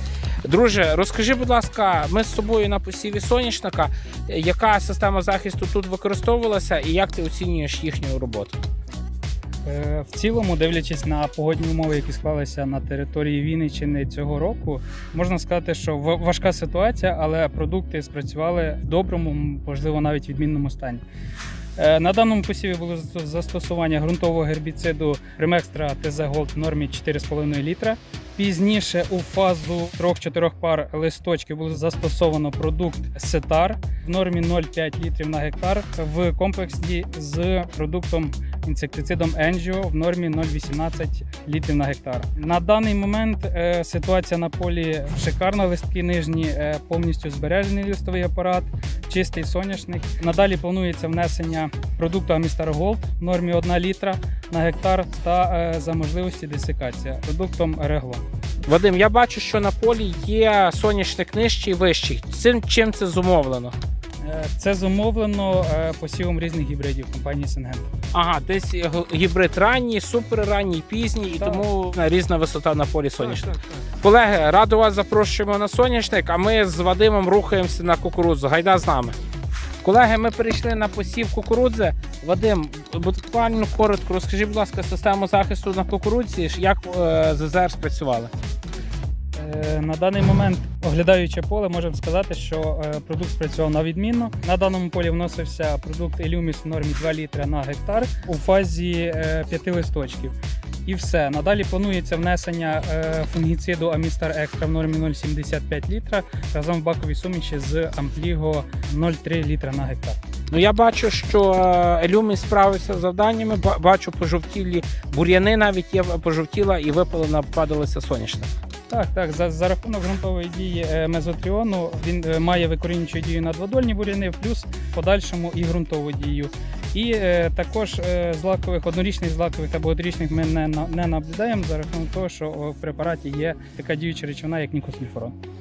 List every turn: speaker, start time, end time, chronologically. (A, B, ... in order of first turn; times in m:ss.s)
0:00.4-0:08.6 A
0:09.6-0:21.0 B
0:21.8-0:58.2 B
0:58.6-1:03.7 A
1:04.2-1:07.9 B
1:08.1-1:19.2 A
1:19.8-1:28.3 A
1:29.3-1:50.2 B
1:50.5-1:58.5 A
1:58.9-2:15.4 B